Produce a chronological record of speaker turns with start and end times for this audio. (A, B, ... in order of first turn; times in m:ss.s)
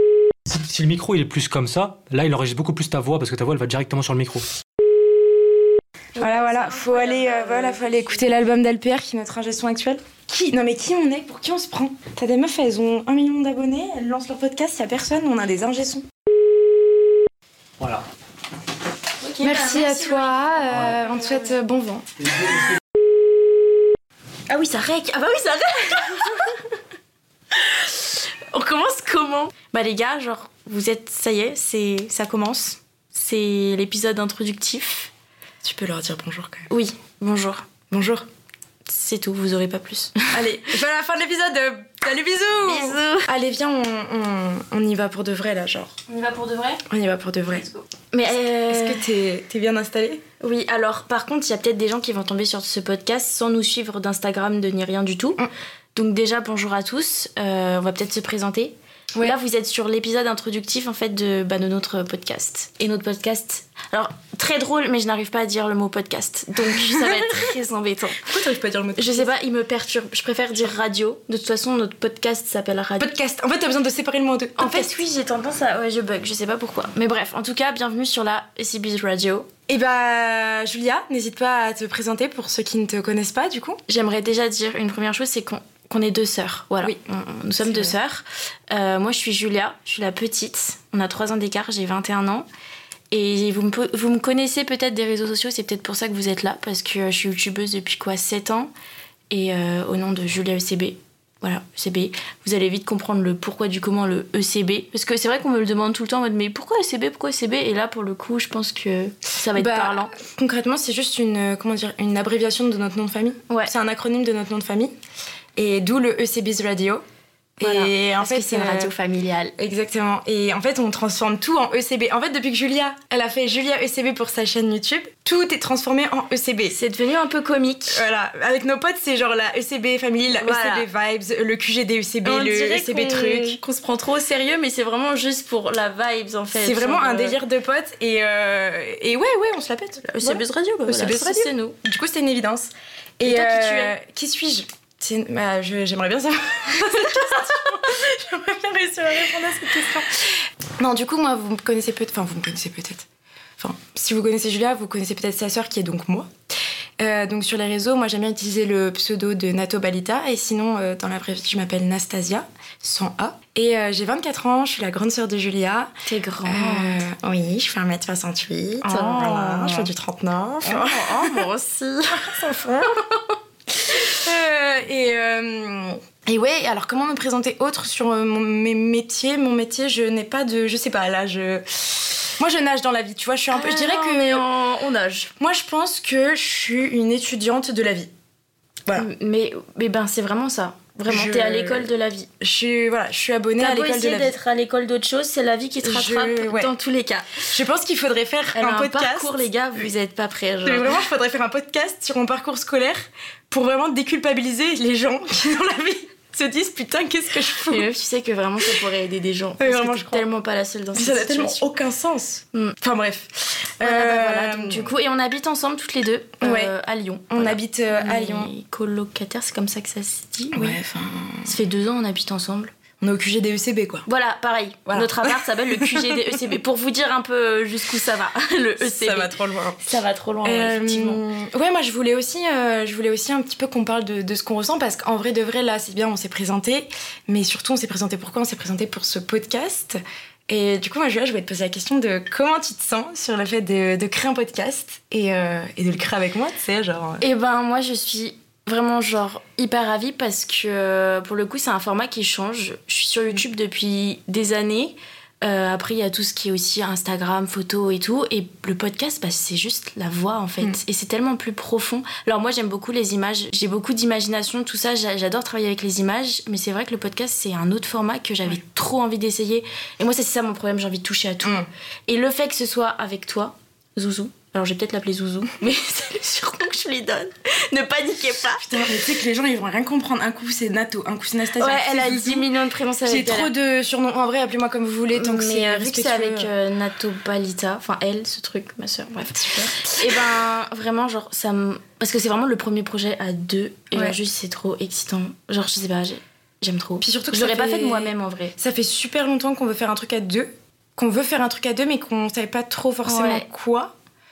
0:00.5-0:04.4 A
0:06.2-0:08.3 B
0:06.2-0:16.0 C
0:19.2-0:21.5 B
0:19.4-0:22.4 C
0:24.5-0:26.6 B
0:27.5-0:35.1 B
0:35.6-0:36.7 C
0:36.7-0:37.7 B
0:37.9-0:38.2 C
0:38.8-0:40.4 B
0:40.3-0:45.9 C
0:42.6-0:43.3 B
0:46.1-0:46.8 B
0:46.9-0:47.6 C
0:47.5-0:49.0 B
0:48.2-0:50.2 C
0:50.4-1:08.3 B
1:06.7-1:07.4 C
1:08.2-1:09.3 C
1:09.0-1:13.1 B
1:13.0-1:15.0 C
1:14.6-1:19.5 B
1:19.7-1:23.8 C
1:23.9-1:32.5 B
1:26.8-1:27.9 C
1:33.1-1:38.7 B
1:39.3-1:50.1 B
1:49.5-1:54.9 C
1:55.6-1:57.0 C
1:57.6-1:58.9 C
1:57.6-1:59.5 B
1:59.6-2:06.8 C
2:06.7-2:08.0 B
2:07.9-2:13.6 C
2:10.4-2:10.9 B
2:12.2-2:17.4 B
2:16.6-2:33.1 C
2:20.0-2:21.8 B
2:23.2-2:23.9 B
2:33.6-2:36.3 C
2:37.0-2:45.9 C
2:46.0-2:47.0 B
2:46.4-2:51.4 C
2:48.8-2:49.9 B
2:50.6-2:52.4 B
2:52.1-3:04.4 C
3:03.5-3:05.3 B
3:05.4-3:08.1 C
3:08.9-3:12.3 B
3:11.1-3:14.3 C
3:13.6-3:17.5 B
3:15.8-3:16.7 C
3:17.5-3:19.4 C
3:18.5-3:21.0 B
3:20.6-3:27.8 C
3:27.7-3:31.6 B
3:29.6-3:30.3 C
3:30.9-3:34.9 C
3:33.8-3:40.8 B
3:36.4-3:36.7 C
3:37.3-3:38.5 C
3:40.5-3:41.5 C
3:41.4-3:42.7 B
3:43.0-3:44.0 C
3:44.0-3:51.2 B
3:44.9-3:46.5 C
3:48.8-3:49.8 C
3:50.4-4:07.2 C
4:07.2-4:38.9 B
4:38.6-4:42.5 C
4:41.6-4:43.5 B
4:43.0-4:46.5 C
4:45.1-4:58.5 B
4:49.3-4:50.3 C
4:53.9-4:54.2 C
4:57.0-5:03.9 C
5:03.0-5:03.4 B